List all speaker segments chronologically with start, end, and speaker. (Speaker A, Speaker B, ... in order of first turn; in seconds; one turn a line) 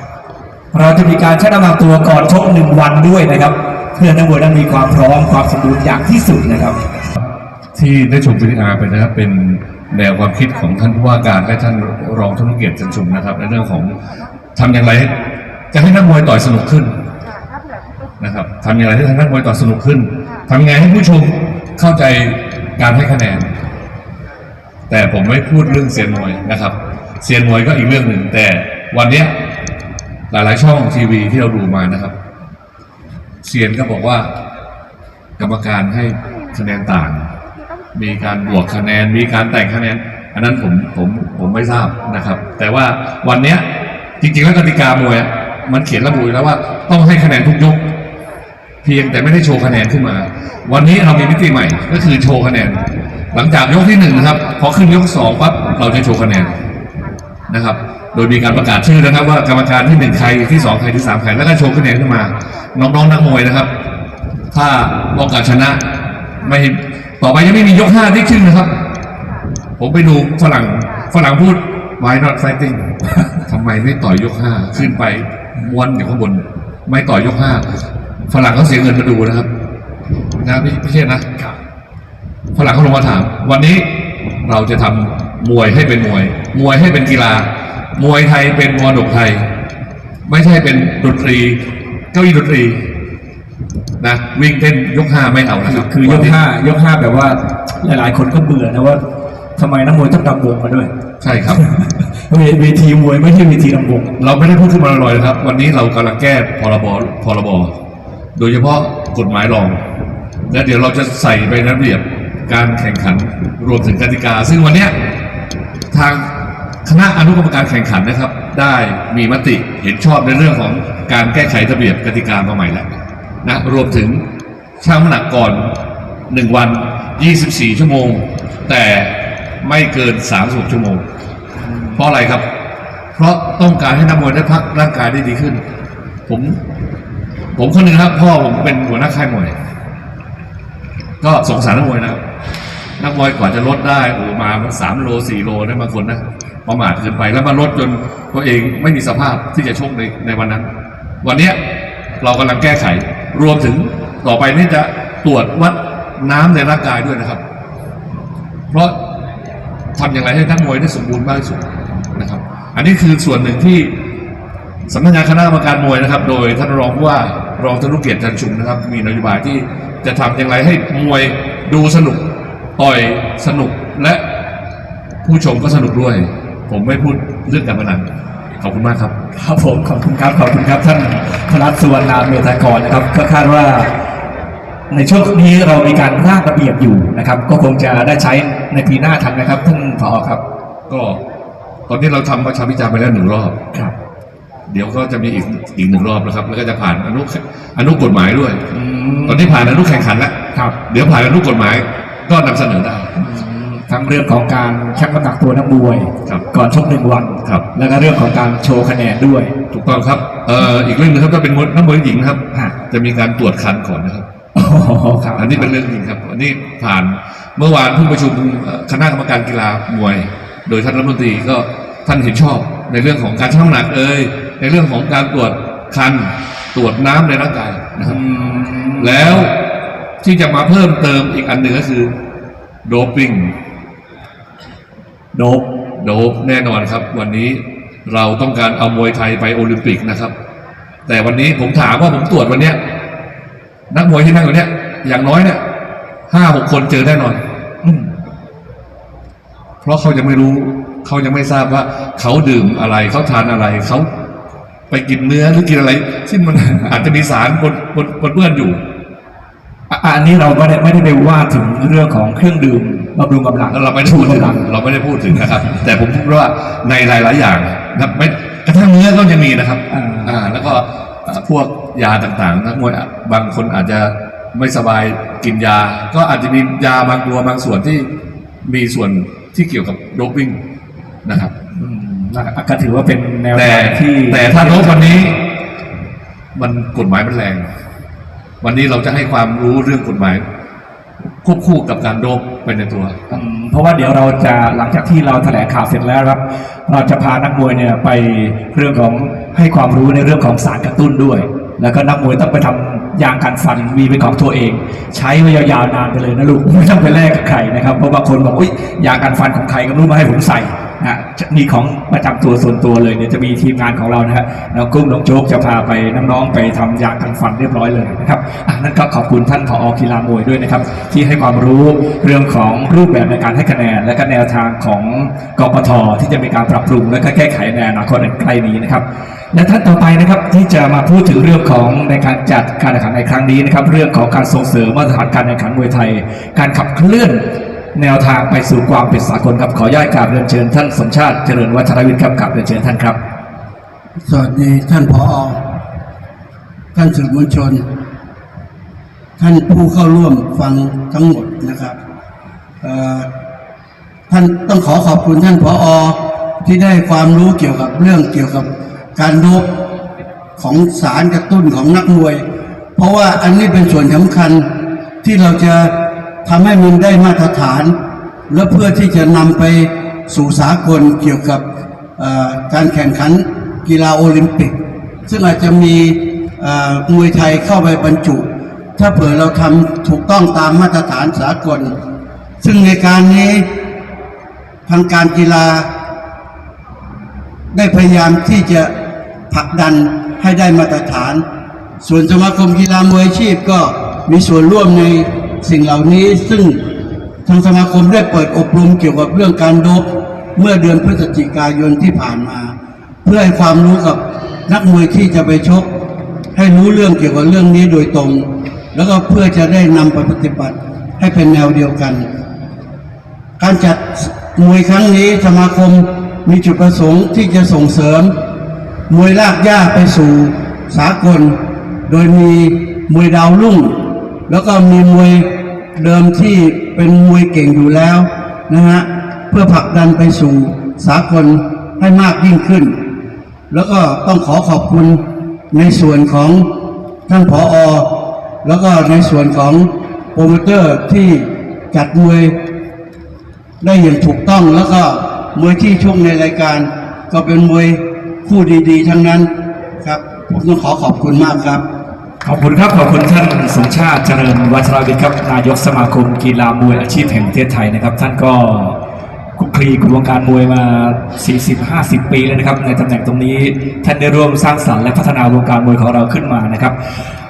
Speaker A: 0.7-6.8
Speaker B: 7.7-14.0
Speaker B: 14.5-17.0
Speaker B: 18.2-23.5
Speaker B: 24.9-29.4
Speaker B: 30.3-32.1
Speaker B: 33.4-34.3
Speaker B: 35.4-37.3
Speaker B: 37.9-43.7
Speaker B: 44.2-47.9
Speaker B: 48.8-56.6
Speaker B: 57.5-63.7
Speaker B: 64.5-68.8
Speaker B: 69.8-77.6
Speaker B: 78.3-79.5
Speaker B: 80.4-81.3
Speaker B: 82.5-89.5
Speaker B: 90.2-92.9
Speaker B: 94.0-96.4
Speaker A: 95.7-99.0
Speaker A: 99.6-100.9
Speaker B: 101.2-101.6
Speaker A: 101.6-104.2
Speaker B: 104.2-107.8
Speaker B: 108.3-109.8
Speaker B: 110.5-115.0
Speaker B: 115.9-116.3
Speaker B: 116.8-122.9
Speaker B: 123.4-124.2
Speaker B: 124.8-125.7
Speaker B: 126.3-131.0
Speaker A: 131.6-132.0
Speaker B: 131.9-132.5
Speaker B: 133.2-135.6
Speaker B: 136.3-136.6
Speaker B: 137.6-139.5
Speaker B: 141.2-142.2
Speaker B: 143.0-150.7
Speaker B: 151.2-151.6
Speaker B: 152.2-157.4
Speaker B: 158.7-159.0
Speaker B: 159.9-163.9
Speaker B: 164.9-174.2
Speaker B: 175.2-178.1
Speaker B: 178.6-179.1
Speaker A: 179.3-183.9
Speaker A: 184.9-190.4
Speaker B: 190.9-191.2
Speaker B: 191.9-193.6
Speaker B: 194.7-198.6
Speaker A: 198.7-199.7
Speaker B: 199.2-200.3
Speaker B: 200.9-203.1
Speaker A: 203.2-209.5
Speaker B: 209.7-214.2
Speaker A: 214.5-215.7
Speaker B: 215.4-228.2
Speaker A: 228.0-229.4
Speaker B: 229.0-229.6
Speaker B: 230.2-232.1
Speaker B: 232.8-233.5
Speaker A: 235.3-235.7
Speaker B: 236.0-240.3
Speaker B: 241.1-242.8
Speaker B: 243.9-245.6
Speaker B: 246.3-247.4
Speaker A: 247.8-248.1
Speaker B: 249.8-254.1
Speaker B: 254.9-258.8
Speaker A: 259.9-264.6
Speaker B: 263.7-278.1
Speaker A: 269.9-270.4
Speaker B: 278.6-280.6
Speaker B: 281.2-281.5
Speaker A: 281.7-285.4
Speaker B: 283.5-285.4
Speaker B: 286.5-287.7
Speaker B: 288.6-290.4
Speaker B: 291.4-293.3
Speaker A: 293.3-343.2
Speaker C: 344.2-345.6
Speaker C: 346.9-347.8
Speaker C: 349.4-352.0
Speaker C: 352.8-353.3
Speaker C: 354.3-359.7
Speaker C: 360.6-362.4
Speaker C: 362.9-367.9
Speaker C: 368.5-371.6
Speaker C: 372.2-381.9
Speaker C: 382.6-383.7
Speaker C: 384.9-385.9
Speaker C: 387.7-388.9
Speaker C: 389.5-391.4
Speaker C: 392.0-396.8
Speaker C: 397.4-405.9
Speaker C: 406.5-412.3
Speaker C: 413.6-418.3
Speaker C: 419.1-433.0
Speaker C: 433.7-436.7
Speaker C: 437.3-442.6
Speaker C: 443.8-451.8
Speaker A: 452.4-459.0
Speaker A: 459.6-466.9